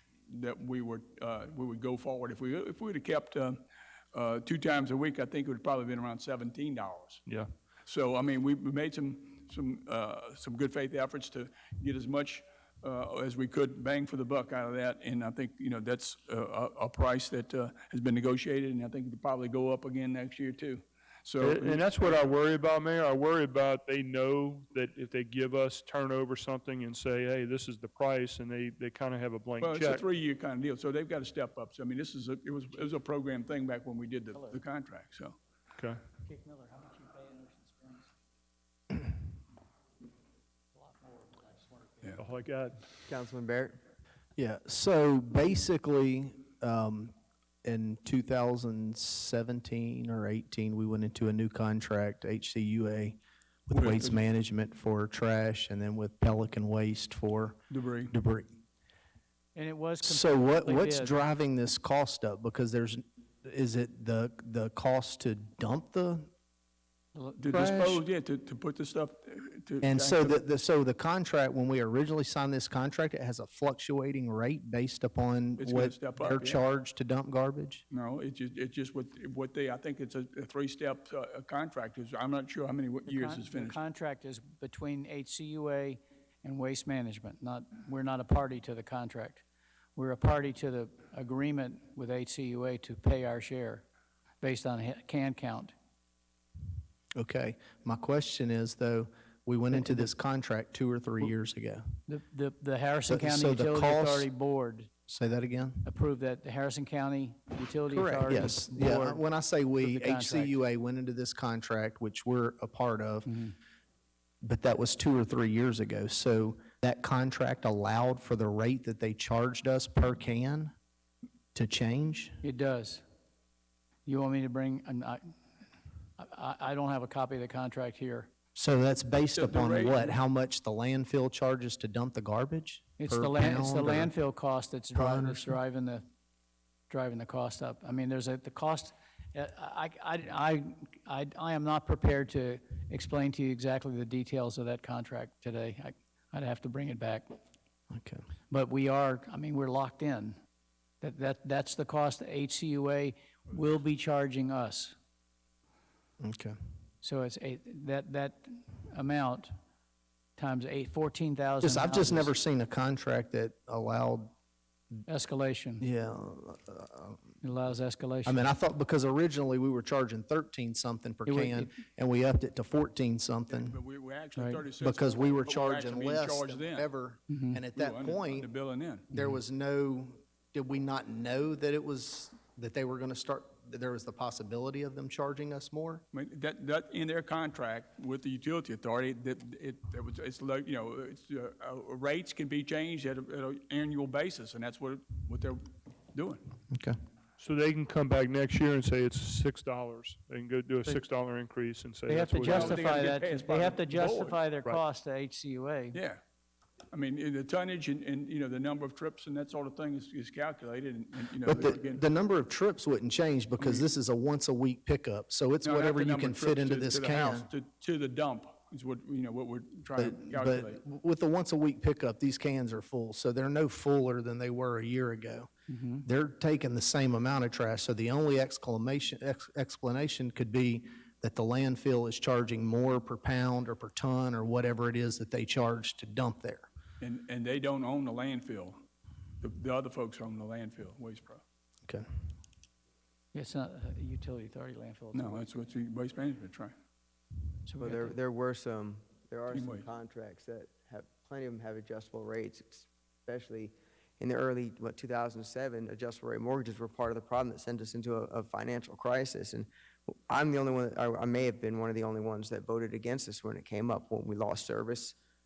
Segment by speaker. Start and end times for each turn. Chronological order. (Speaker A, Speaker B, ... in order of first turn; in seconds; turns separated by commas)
Speaker A: 0.3-3.6, Speaker A: 4.1-7.2, Speaker B: 7.2-7.5, Speaker A: 7.8-21.9, Speaker B: 21.4-30.0, Speaker A: 29.6-35.4, Speaker C: 34.3-34.6, Speaker B: 35.8-36.0, Speaker C: 36.2-38.1, Speaker C: 40.7-42.2, Speaker B: 42.2-42.8, Speaker D: 43.1-43.8, Speaker E: 44.4-58.5, Speaker A: 53.7-54.2, Speaker A: 57.7-58.1, Speaker C: 59.5-61.2, Speaker E: 60.0-66.3, Speaker C: 67.1-67.8, Speaker A: 67.4-70.4, Speaker E: 67.5-68.0, Speaker E: 69.8-77.8, Speaker A: 75.6-76.6, Speaker A: 77.9-83.8, Speaker C: 83.0-89.4, Speaker C: 90.0-93.8, Speaker C: 94.4-95.7, Speaker E: 97.1-101.8, Speaker C: 99.7-100.0, Speaker C: 102.1-104.9, Speaker E: 103.1-104.3, Speaker E: 105.1-105.8, Speaker C: 105.8-109.3, Speaker E: 107.9-113.3, Speaker C: 109.8-110.6, Speaker C: 113.2-113.5, Speaker E: 114.4-120.7, Speaker E: 121.5-122.4, Speaker C: 122.4-123.0, Speaker C: 124.0-125.3, Speaker C: 126.2-128.3, Speaker E: 128.6-134.1, Speaker A: 129.3-130.2, Speaker C: 133.0-136.0, Speaker E: 134.9-135.6, Speaker C: 136.9-147.4, Speaker E: 147.9-148.2, Speaker C: 148.5-150.4, Speaker C: 151.0-154.9, Speaker E: 156.2-156.5, Speaker C: 157.0-159.5, Speaker C: 160.4-162.3, Speaker E: 161.6-164.3, Speaker C: 165.1-165.8, Speaker E: 165.8-167.2, Speaker C: 167.4-168.5, Speaker E: 168.2-173.8, Speaker C: 171.2-171.7, Speaker A: 173.5-176.9, Speaker C: 174.3-174.6, Speaker E: 174.8-178.5, Speaker C: 177.3-177.6, Speaker A: 177.8-179.1, Speaker E: 179.1-186.0, Speaker A: 186.1-196.4, Speaker E: 196.7-196.9, Speaker B: 197.4-202.7, Speaker C: 202.1-206.0, Speaker A: 202.4-204.4, Speaker A: 205.9-206.2, Speaker A: 206.9-212.0, Speaker E: 211.4-217.5, Speaker A: 213.6-213.9, Speaker A: 215.6-220.8, Speaker E: 220.0-225.5, Speaker C: 225.7-226.0, Speaker E: 226.0-236.7, Speaker A: 237.0-238.8, Speaker A: 239.4-241.4, Speaker C: 243.3-245.4, Speaker A: 245.1-246.7, Speaker C: 247.7-248.2, Speaker D: 247.8-265.1, Speaker A: 249.5-249.9